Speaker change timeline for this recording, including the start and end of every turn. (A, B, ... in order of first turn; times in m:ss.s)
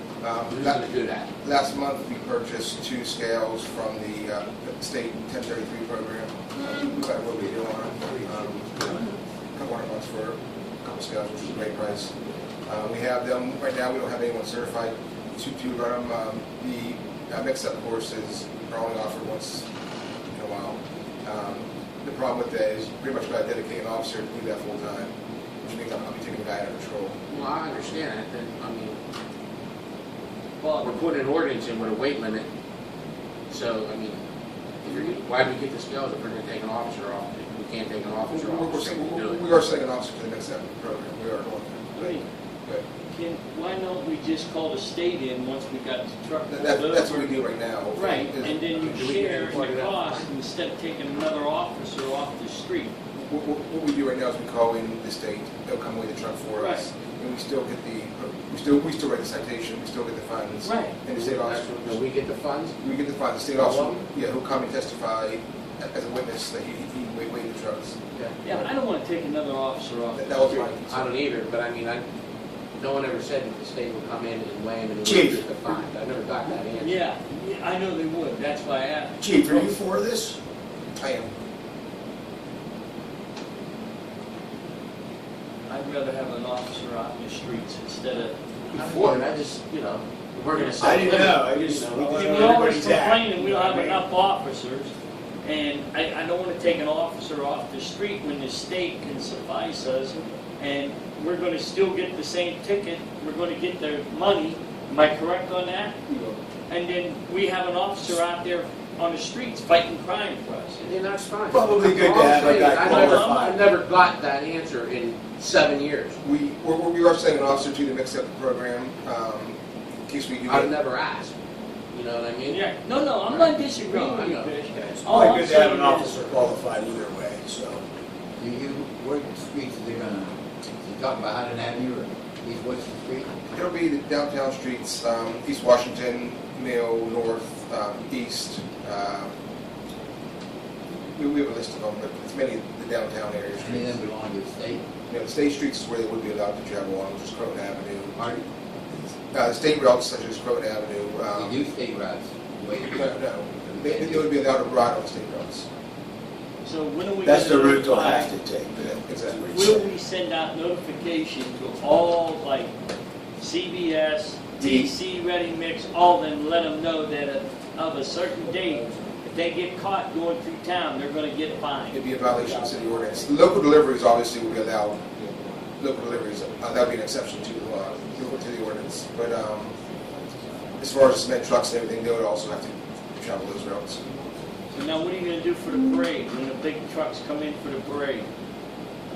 0:00.2-0:00.8 A
0:00.5-0:01.3 B
0:01.4-0:12.1 A
0:12.7-0:19.7 A
0:20.3-0:27.2 A
0:27.3-0:29.0 B
0:30.6-0:31.1 C
0:30.8-0:32.5 B
0:33.5-0:34.2 B
0:34.8-0:39.4 B
0:38.3-0:42.8 A
0:42.0-0:42.2 C
0:43.1-0:47.4 C
0:46.5-0:48.6 A
0:48.0-0:52.9 C
0:48.7-0:50.3 B
0:53.2-1:02.0 A
0:56.6-0:56.9 C
1:00.6-1:01.0 C
1:01.2-1:02.8 B
1:02.8-1:08.7 A
1:03.5-1:04.1 B
1:08.4-1:10.7 C
1:10.2-1:11.1 A
1:10.9-1:12.0 B
1:12.8-1:17.0 B
1:15.0-1:15.7 D
1:16.8-1:19.7 C
1:19.2-1:20.4 D
1:21.0-1:21.3 A
1:25.7-1:28.4 C
1:28.7-1:32.7 B
1:30.5-1:31.4 C
1:30.8-1:34.0 D
1:32.1-1:34.9 C
1:35.4-1:46.0 C
1:46.7-1:50.9 C
1:50.8-1:56.2 B
1:51.5-1:53.7 D
1:52.3-1:53.4 C
1:56.2-2:00.7 A
2:00.5-2:01.3 B
2:01.9-2:02.6 B
2:02.5-2:06.4 C
2:03.2-2:04.6 B
2:05.0-2:07.8 D
2:08.4-2:13.3 E
2:13.5-2:19.3 A
2:20.9-2:24.0 A
2:23.6-2:24.8 E
2:25.1-2:28.4 A
2:28.2-2:28.4 E
2:29.3-2:31.6 A
2:31.3-2:34.3 E
2:32.7-2:35.7 A
2:36.6-2:38.3 C
2:37.2-2:39.9 D
2:38.9-2:39.5 A
2:39.5-2:42.7 C
2:43.4-2:52.0 C
2:51.9-2:55.2 A
2:55.8-2:59.8 A
3:00.8-3:04.0 A
3:04.7-3:08.3 C